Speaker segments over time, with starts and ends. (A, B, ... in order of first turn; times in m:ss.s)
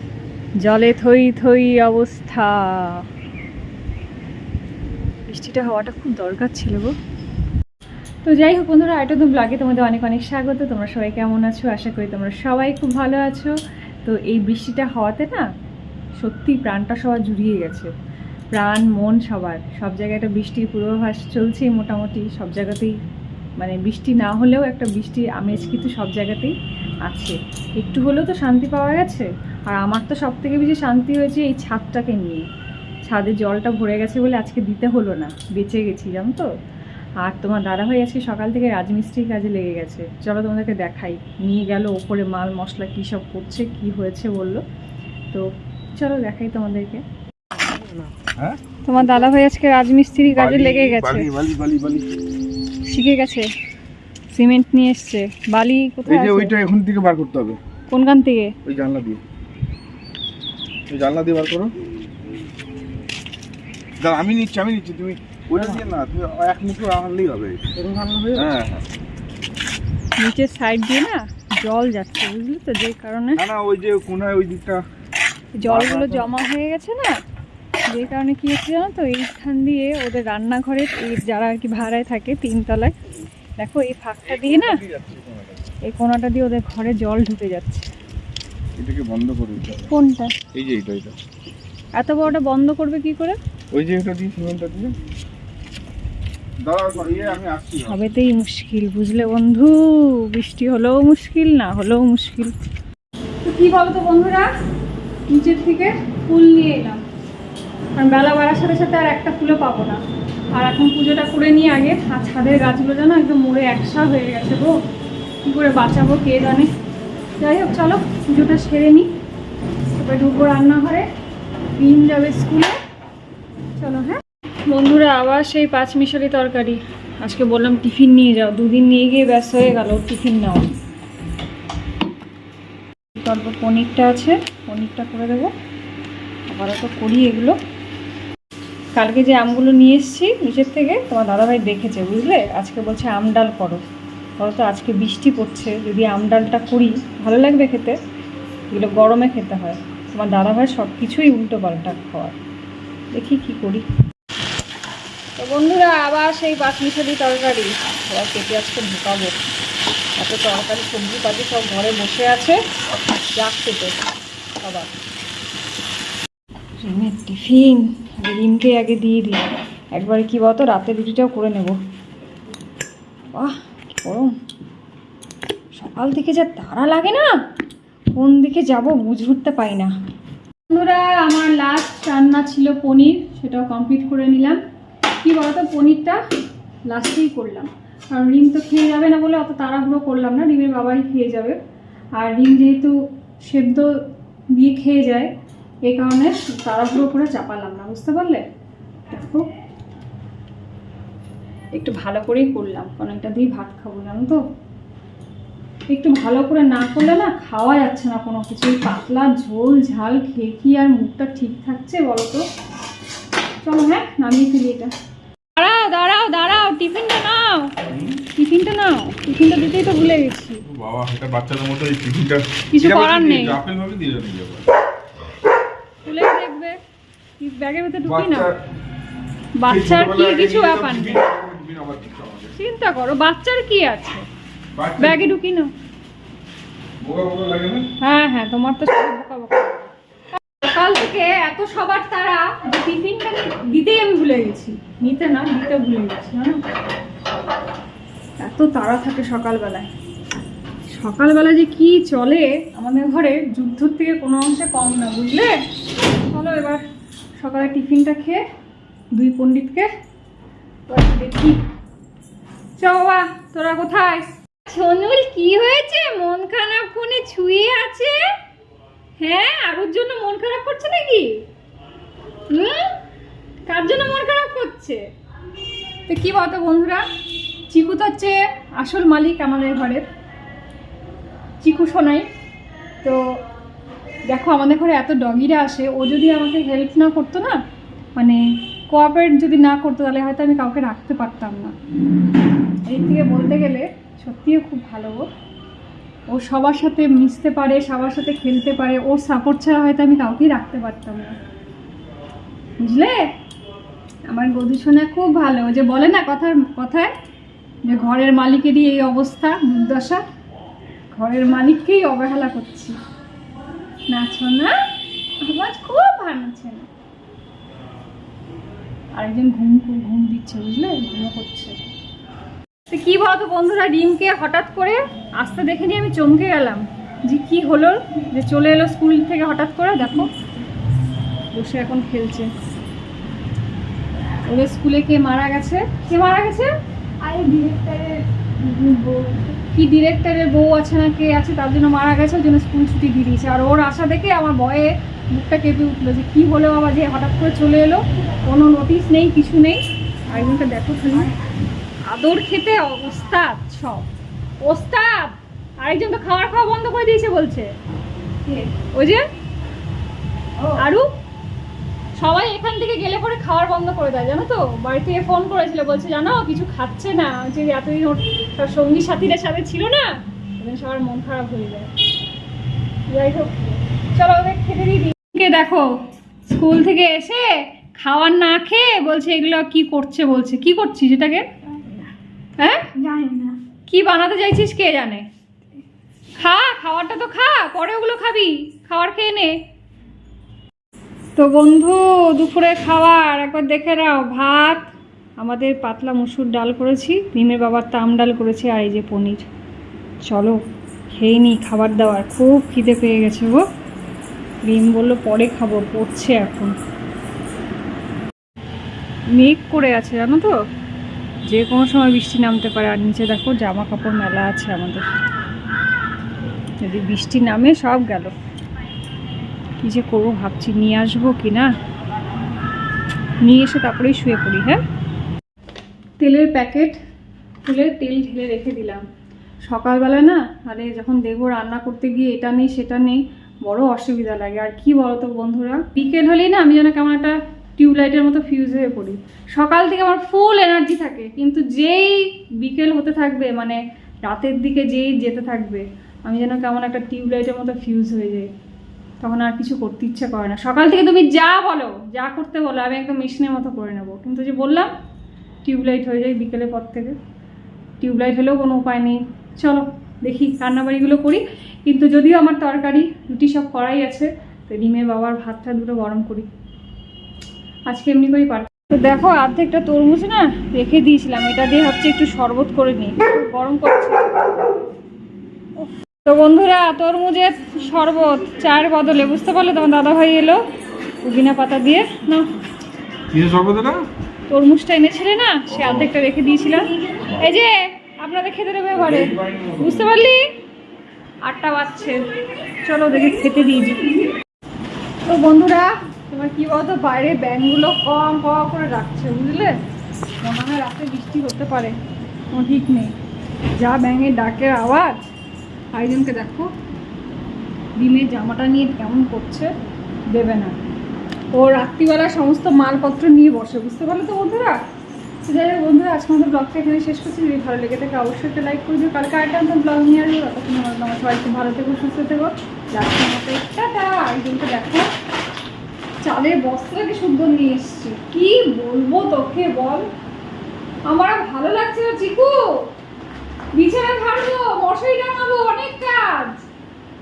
0:00.6-0:03.0 A
0:05.3-0:06.9 A
0:08.2-0:15.5 A
0:16.2-0:17.9 A
0:18.5-0:22.9 A
0:23.6-0:26.5 A
0:27.0-0:32.4 A
0:33.1-0:36.5 A
0:37.2-0:44.6 A
0:45.3-0:47.0 A
0:48.8-0:51.3 A
0:50.3-0:52.1 B
0:52.9-0:53.5 A
0:54.3-0:56.5 A
0:56.1-0:57.6 B
0:57.9-0:58.5 A
0:58.7-0:59.2 B
1:00.9-1:01.7 B
1:04.0-1:08.8 B
1:07.9-1:08.3 C
1:10.2-1:13.4 A
1:13.4-1:14.8 B
1:15.6-1:17.1 A
1:15.6-1:16.3 B
1:17.9-1:22.9 A
1:23.6-1:24.8 A
1:24.3-1:25.6 B
1:25.9-1:27.9 A
1:28.8-1:29.9 B
1:29.9-1:30.4 A
1:30.5-1:31.2 B
1:32.0-1:33.4 A
1:33.7-1:34.9 B
1:36.6-1:38.0 B
1:37.8-1:42.5 A
1:43.4-1:44.5 A
1:45.3-1:47.0 A
1:48.0-1:50.0 A
1:50.5-1:54.8 A
1:55.4-1:56.7 A
1:57.4-1:59.1 A
1:59.9-2:01.1 A
2:01.8-2:02.8 A
2:03.8-2:10.7 A
2:13.1-2:15.5 A
2:16.5-2:17.6 A
2:18.9-2:23.8 A
2:24.4-2:28.0 A
2:28.7-2:32.4 A
2:33.1-2:33.8 A
2:35.4-2:39.4 A
2:40.2-2:42.6 A
2:43.4-2:44.0 A
2:44.6-2:44.9 A
2:46.8-2:51.8 A
2:53.3-2:54.4 A
2:55.8-2:57.4 A
2:58.2-2:59.9 A
3:00.7-3:04.6 A
3:05.2-3:06.2 A
3:06.9-3:11.6 A
3:12.2-3:13.9 A
3:14.5-3:15.3 A
3:15.9-3:18.4 A
3:19.1-3:19.5 A
3:21.7-3:24.4 A
3:25.9-3:32.4 A
3:33.6-3:34.9 A
3:35.6-3:37.7 A
3:37.9-3:38.2 B
3:38.3-3:40.6 A
3:40.7-3:44.7 B
3:42.7-3:43.6 A
3:46.0-3:46.8 A
3:47.4-3:48.5 A
3:48.0-3:48.5 B
3:49.6-3:51.2 A
3:49.7-3:52.5 B
3:52.6-3:54.2 A
3:54.8-3:55.3 B
3:55.0-3:55.7 A
3:57.0-3:57.9 B
3:58.0-4:06.6 A
4:08.4-4:09.9 A
4:10.9-4:15.6 A
4:16.3-4:16.8 A
4:17.4-4:18.4 A
4:19.1-4:19.9 A
4:20.9-4:21.6 A
4:22.8-4:28.2 A
4:29.2-4:31.3 A
4:32.5-4:32.9 A
4:33.7-4:35.0 A
4:36.1-4:37.0 A
4:37.7-4:40.1 A
4:41.6-4:42.3 A
4:44.3-4:47.6 A
4:48.2-4:51.7 A
4:52.8-4:55.3 A
4:56.3-5:01.4 A
5:02.8-5:03.2 A
5:04.3-5:07.1 A
5:07.8-5:10.2 A
5:11.1-5:13.0 A
5:14.1-5:14.8 A
5:15.4-5:16.9 A
5:19.2-5:21.8 A
5:22.9-5:30.3 A
5:31.5-5:32.5 A
5:34.5-5:36.7 A
5:37.2-5:39.5 C
5:39.6-5:51.3 A
5:52.1-5:54.1 A
5:54.6-5:57.7 A
5:58.5-5:59.2 A
6:00.6-6:01.1 A
6:02.2-6:11.9 A
6:13.1-6:21.4 A
6:22.6-6:23.0 A
6:23.0-6:23.6 C
6:23.9-6:25.2 A
6:26.4-6:29.6 A
6:31.4-6:39.5 A
6:40.2-6:40.6 A
6:41.1-6:43.6 A
6:44.6-6:46.8 A
6:49.3-6:50.5 A
6:51.5-6:55.1 A
6:56.8-6:58.3 A
6:59.8-7:01.7 A
7:03.4-7:04.8 A
7:06.2-7:07.0 A
7:07.6-7:09.0 A
7:09.6-7:28.5 A
7:29.2-7:34.9 A
7:35.6-7:37.2 A
7:38.0-7:46.5 A
7:47.9-7:54.4 A
7:55.8-8:00.6 A
8:01.2-8:02.5 A
8:03.3-8:04.1 B
8:04.5-8:10.5 A
8:08.9-8:10.1 B
8:11.4-8:12.2 A
8:12.8-8:14.2 A
8:15.2-8:19.8 A
8:20.4-8:22.0 A
8:22.5-8:23.1 A
8:23.8-8:25.2 A
8:25.9-8:26.7 A
8:28.0-8:29.7 A
8:30.3-8:30.8 A
8:31.5-8:34.8 A
8:35.4-8:45.1 A
8:46.2-8:50.0 A
8:51.1-8:52.6 A
8:53.8-8:56.6 A